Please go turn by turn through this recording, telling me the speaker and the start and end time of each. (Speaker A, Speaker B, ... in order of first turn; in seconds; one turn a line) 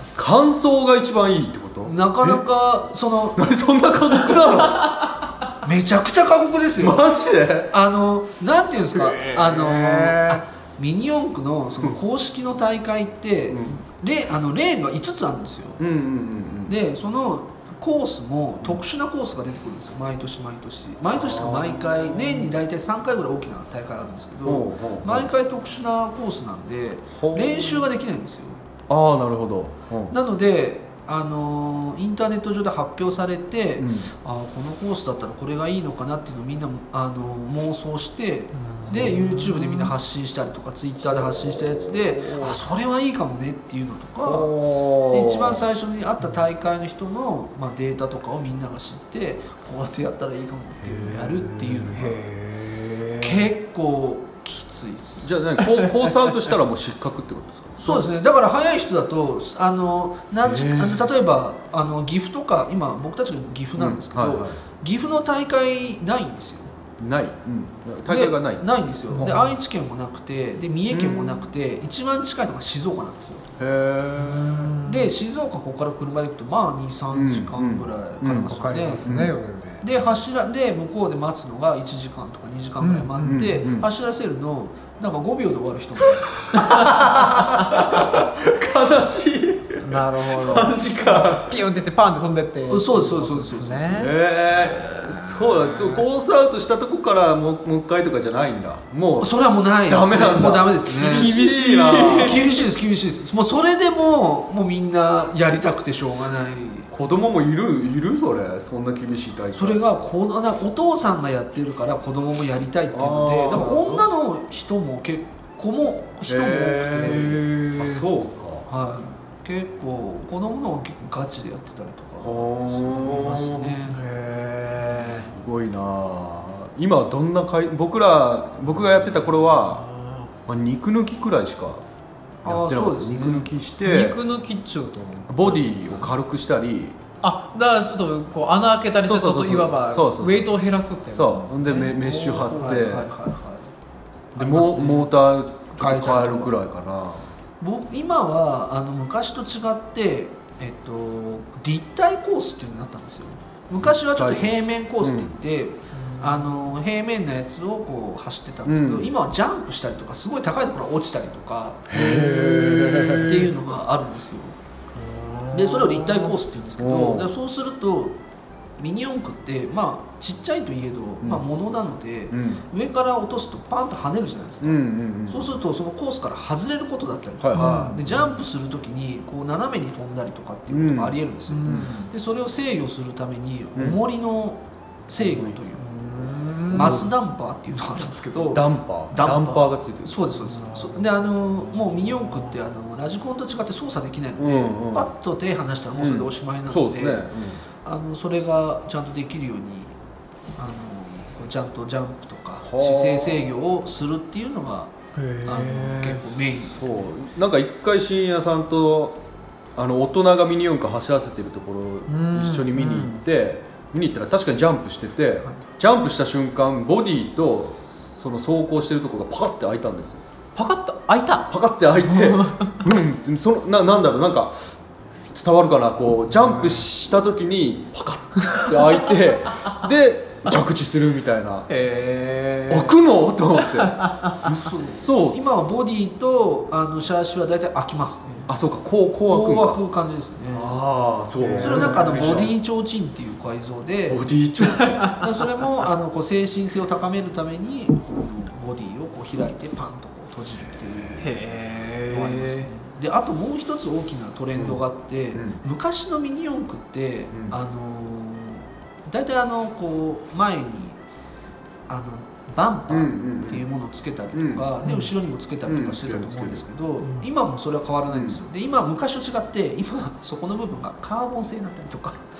Speaker A: 0.2-2.4
Speaker B: 1.9-3.4
Speaker A: 3.4-5.1
Speaker B: 5.6-7.0
Speaker A: 6.8-7.7
Speaker B: 7.7-15.8
Speaker C: 9.1-10.4
Speaker A: 13.5-13.8
Speaker A: 15.8-16.8
Speaker B: 16.7-28.6
Speaker A: 21.1-22.5
Speaker A: 24.4-25.3
Speaker A: 27.2-27.9
Speaker A: 28.9-30.2
Speaker B: 30.1-44.5
Speaker A: 33.8-34.1
Speaker C: 38.5-39.9
Speaker A: 41.1-42.6
Speaker A: 44.2-45.6
Speaker B: 45.1-52.2
Speaker A: 50.8-52.1
Speaker C: 52.0-53.5
Speaker B: 53.2-55.5
Speaker A: 55.2-58.0
Speaker C: 55.8-56.1
Speaker B: 57.8-66.7
Speaker A: 60.4-61.1
Speaker A: 63.8-64.6
Speaker A: 67.0-68.7
Speaker B: 68.1-73.5
Speaker C: 69.1-69.5
Speaker A: 70.9-71.5
Speaker A: 73.6-74.7
Speaker C: 74.2-75.1
Speaker B: 74.8-79.2
Speaker A: 77.1-79.3
Speaker C: 78.3-79.8
Speaker B: 79.8-86.5
Speaker C: 82.8-83.7
Speaker A: 83.2-83.9
Speaker A: 86.5-91.6
Speaker C: 86.6-87.0
Speaker C: 87.5-88.0
Speaker C: 89.8-94.2
Speaker B: 92.7-94.1
Speaker A: 93.9-102.6
Speaker C: 94.8-96.0
Speaker B: 99.2-106.9
Speaker C: 101.0-102.4
Speaker A: 106.9-109.8
Speaker B: 109.6-117.4
Speaker A: 112.9-114.0
Speaker A: 116.3-118.7
Speaker C: 117.0-118.0
Speaker B: 118.7-124.0
Speaker A: 122.2-123.8
Speaker C: 123.9-125.3
Speaker A: 125.0-129.9
Speaker C: 129.9-130.2
Speaker A: 130.5-131.8
Speaker A: 132.4-134.2
Speaker B: 132.4-133.5
Speaker C: 133.8-136.1
Speaker A: 135.3-137.0
Speaker C: 137.2-142.0
Speaker A: 139.0-140.5
Speaker A: 141.1-143.1
Speaker B: 141.8-143.7
Speaker B: 144.3-145.2
Speaker A: 144.3-147.3
Speaker B: 145.8-146.5
Speaker B: 147.6-161.9
Speaker A: 153.8-155.3
Speaker C: 155.9-156.5
Speaker A: 158.7-159.1
Speaker A: 161.9-163.4
Speaker C: 161.9-163.5
Speaker B: 163.1-164.6
Speaker C: 164.9-166.3
Speaker B: 165.5-168.2
Speaker A: 166.8-167.3
Speaker B: 168.8-185.8
Speaker A: 172.3-172.6
Speaker A: 174.6-175.5
Speaker A: 177.4-178.3
Speaker C: 177.6-178.0
Speaker A: 180.7-181.9
Speaker C: 181.5-182.1
Speaker A: 185.2-185.6
Speaker C: 185.8-187.1
Speaker B: 186.7-197.3
Speaker A: 186.7-187.1
Speaker A: 188.3-190.3
Speaker C: 190.5-192.5
Speaker A: 194.4-195.1
Speaker A: 196.0-197.6
Speaker B: 197.8-199.9
Speaker B: 200.6-204.9
Speaker A: 202.6-203.6
Speaker C: 205.2-206.2
Speaker B: 205.4-207.1
Speaker A: 206.7-209.2
Speaker A: 209.8-220.2
Speaker C: 212.1-213.2
Speaker C: 220.6-221.5
Speaker A: 221.5-224.7
Speaker C: 222.0-222.8
Speaker A: 225.3-231.7
Speaker C: 226.6-226.8
Speaker C: 231.7-233.0
Speaker A: 232.7-235.4
Speaker C: 233.5-234.5
Speaker B: 234.5-238.5
Speaker A: 238.5-239.8
Speaker B: 239.3-240.8
Speaker A: 240.5-242.5
Speaker C: 241.4-242.4
Speaker B: 241.6-244.3
Speaker A: 244.1-245.1
Speaker C: 244.7-245.2
Speaker B: 245.1-251.6
Speaker C: 251.2-252.7
Speaker B: 252.1-261.0
Speaker A: 254.6-254.8
Speaker A: 255.3-255.6
Speaker B: 261.9-272.2
Speaker A: 262.9-263.6
Speaker A: 264.3-264.7
Speaker C: 264.8-265.1
Speaker A: 265.7-266.6
Speaker C: 267.0-267.3
Speaker A: 268.1-268.4